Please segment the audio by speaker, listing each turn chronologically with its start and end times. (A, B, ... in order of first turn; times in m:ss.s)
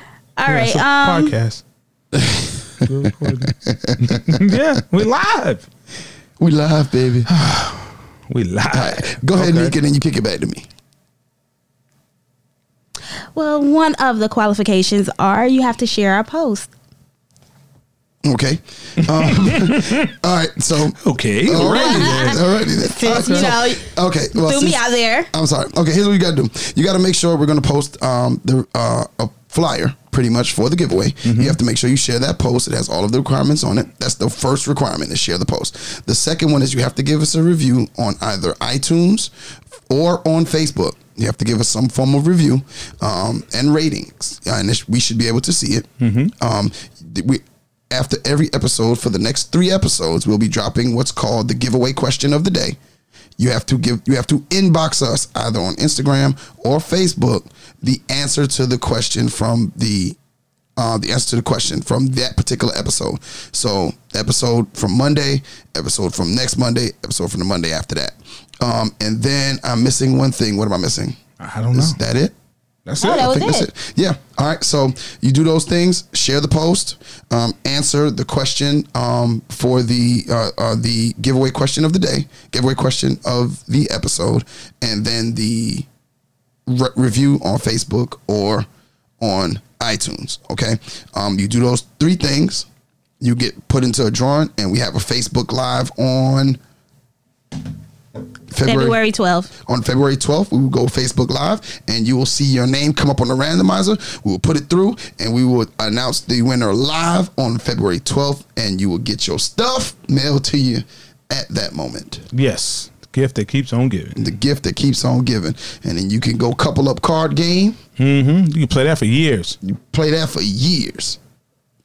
0:00.4-0:01.3 A
0:00.4-0:01.6 B
0:02.1-0:02.9 C
0:02.8-0:05.6 B
0:03.4-0:04.2 C
0:06.4-0:07.3 C
0:07.3-0:09.7 B
0:08.7-0:10.6 C
0:13.3-0:16.7 A
0:18.2-0:39.3 C
0:19.0-0:20.1 B
0:21.0-0:23.5 B
0:21.6-0:25.3 A
0:31.2-0:31.6 B
0:39.9-0:52.8 C
0:46.0-0:46.3 B
0:53.4-1:00.2 C
1:00.8-1:11.2 C
1:11.4-1:12.0 B
1:11.7-1:12.3 C
1:12.8-1:13.3 B
1:13.0-1:13.7 A
1:13.0-1:25.9 C
1:26.6-1:28.7 C
1:29.2-1:32.7 C
1:33.2-1:36.6 C
1:38.5-1:39.0 C
1:38.6-1:39.5 A
1:39.7-1:52.2 C
1:52.3-1:54.2 B
1:54.2-1:57.8 C
1:58.0-1:59.6 B
1:59.6-2:01.2 C